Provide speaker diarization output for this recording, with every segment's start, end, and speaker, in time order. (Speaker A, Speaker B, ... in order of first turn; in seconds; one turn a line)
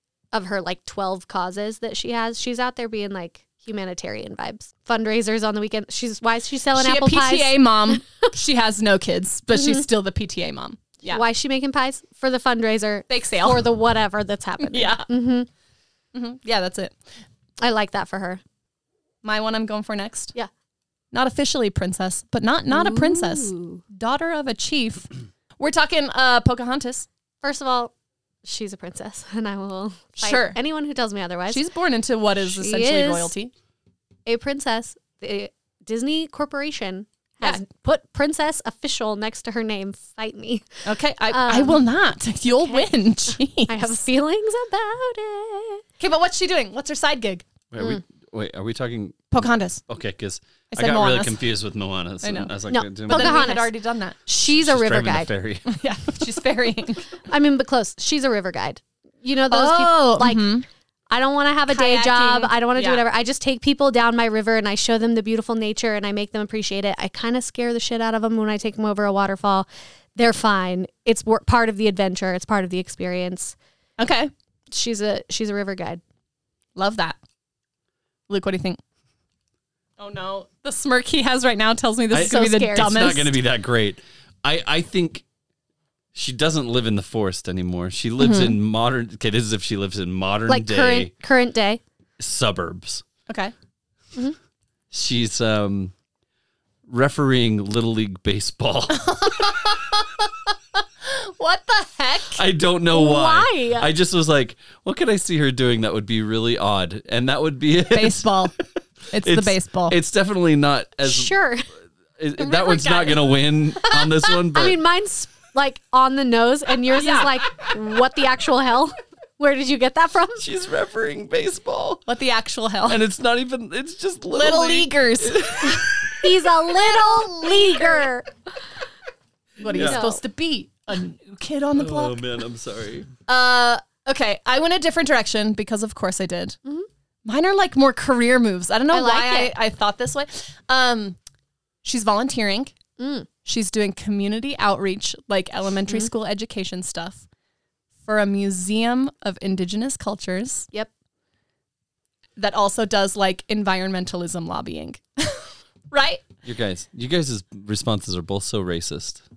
Speaker A: 0.3-8.0
Speaker B: 6.8-11.2
Speaker A: 9.5-9.8
Speaker A: 11.0-15.5
Speaker B: 13.1-13.6
Speaker B: 14.6-15.1
Speaker B: 16.1-16.9
Speaker A: 17.6-18.4
Speaker B: 19.2-20.3
Speaker B: 21.1-27.1
Speaker A: 22.7-23.8
Speaker A: 27.4-27.9
Speaker A: 28.4-31.6
Speaker B: 30.2-30.6
Speaker B: 31.5-33.5
Speaker A: 32.4-33.3
Speaker A: 34.2-41.8
Speaker B: 40.8-44.0
Speaker A: 42.5-45.8
Speaker B: 46.0-47.5
Speaker C: 47.7-53.5
Speaker B: 49.3-49.8
Speaker B: 50.7-51.4
Speaker B: 52.2-54.2
Speaker A: 52.7-53.7
Speaker A: 54.2-55.3
Speaker C: 54.4-56.2
Speaker B: 55.7-57.1
Speaker A: 57.3-60.5
Speaker B: 59.5-60.6
Speaker A: 61.1-73.5
Speaker B: 61.7-63.0
Speaker B: 74.0-74.3
Speaker A: 74.7-76.0
Speaker B: 76.8-77.2
Speaker B: 78.3-78.8
Speaker B: 80.0-83.3
Speaker C: 82.1-85.2
Speaker A: 82.2-83.1
Speaker C: 86.1-91.1
Speaker B: 88.2-88.6
Speaker A: 90.5-91.8
Speaker C: 92.2-93.0
Speaker B: 93.3-93.5
Speaker C: 94.9-95.9
Speaker C: 96.9-99.5
Speaker B: 98.9-100.1
Speaker B: 101.0-102.4
Speaker C: 102.3-108.4
Speaker A: 102.9-103.9
Speaker B: 107.9-108.5
Speaker B: 109.1-110.0
Speaker C: 109.2-111.3
Speaker A: 111.0-111.7
Speaker C: 112.2-114.8
Speaker B: 112.4-113.3
Speaker A: 113.9-120.4
Speaker B: 116.9-117.3
Speaker C: 120.4-122.0
Speaker B: 122.1-123.0
Speaker C: 122.8-125.9
Speaker B: 124.3-125.8
Speaker A: 126.2-128.3
Speaker B: 126.8-128.1
Speaker C: 129.6-130.0
Speaker B: 129.6-132.2
Speaker A: 129.7-130.2
Speaker C: 131.7-133.1
Speaker B: 133.3-136.6
Speaker B: 137.2-141.2
Speaker A: 138.9-139.5
Speaker B: 141.8-142.7
Speaker A: 143.0-143.3
Speaker B: 143.4-147.2
Speaker B: 148.0-150.7
Speaker B: 152.3-156.3
Speaker C: 156.4-159.2